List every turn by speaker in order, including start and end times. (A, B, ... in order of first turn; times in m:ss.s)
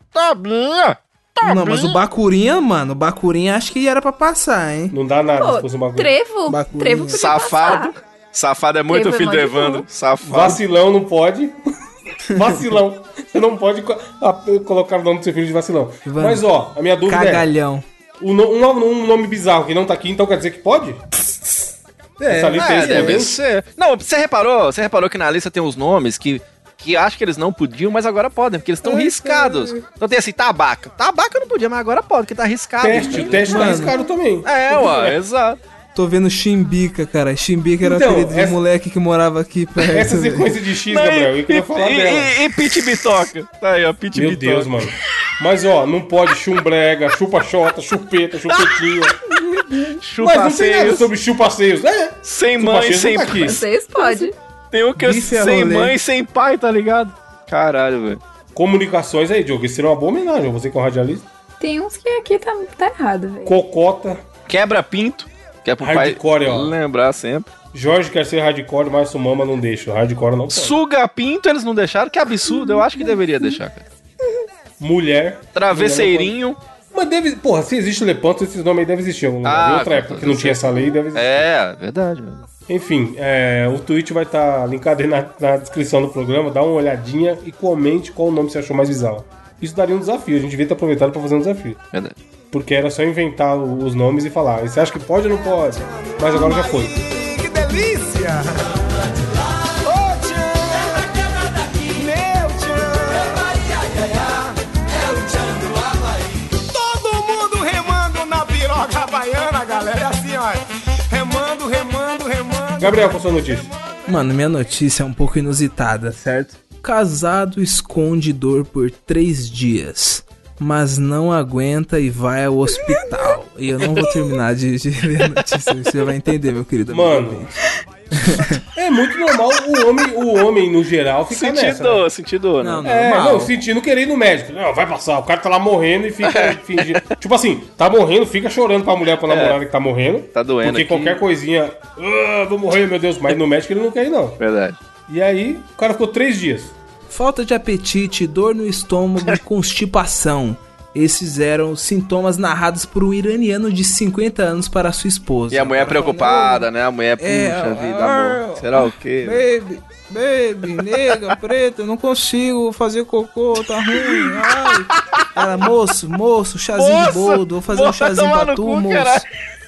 0:00.1-0:02.0 A
0:01.4-0:04.9 B
0:04.9-0:06.2 C
0:05.4-0:07.9 D
0:06.5-0:07.2 B
0:07.1-0:10.6 A
0:08.9-0:09.8 D
0:10.2-0:11.6 C
0:12.3-0:17.5 C
0:16.0-0:16.4 B
0:17.0-0:17.8 B
0:18.2-0:21.7 C
0:22.2-0:23.2 B
0:22.2-0:23.4 C
0:22.5-0:33.9 A
0:28.8-0:29.8 C
0:32.8-0:35.0 C
0:33.5-0:34.0 B
0:34.4-0:35.6 A
0:35.9-0:40.5 B
0:37.8-0:38.6 C
0:39.8-0:42.6 C
0:40.9-0:44.9 A
0:44.1-0:49.2 C
0:49.2-0:50.0 D
0:50.0-0:51.1 A
0:50.2-0:53.6 C
0:52.2-0:58.2 A
0:53.3-0:54.3 D
0:55.0-0:55.9 B
0:58.5-1:01.2 C
1:01.6-1:03.6 D
1:03.4-1:04.2 C
1:04.5-1:07.5 A
1:05.8-1:06.7 C
1:07.7-1:10.8 C
1:10.5-1:13.8 A
1:12.5-1:13.1 D
1:14.8-1:16.4 C
1:15.5-1:16.6 A
1:16.9-1:21.5 C
1:19.4-1:22.4 A
1:22.7-1:31.8 C
1:32.5-1:37.0 C
1:35.8-1:53.2 E
1:52.8-1:53.7 C
1:54.0-2:07.5 B
2:02.8-2:03.1 D
2:06.9-2:07.5 C
2:08.1-2:08.6 B
2:08.7-2:12.1 C
2:11.3-2:12.8 A
2:12.6-2:13.5 B
2:12.8-2:24.4 C
2:16.2-2:17.0 A
2:19.2-2:19.6 A
2:20.3-2:21.2 A
2:24.4-2:24.8 A
2:25.1-2:26.8 C
2:27.1-2:36.6 B
2:35.5-2:39.4 A
2:37.2-2:49.2 B
2:44.0-2:45.2 A
2:46.8-2:49.3 A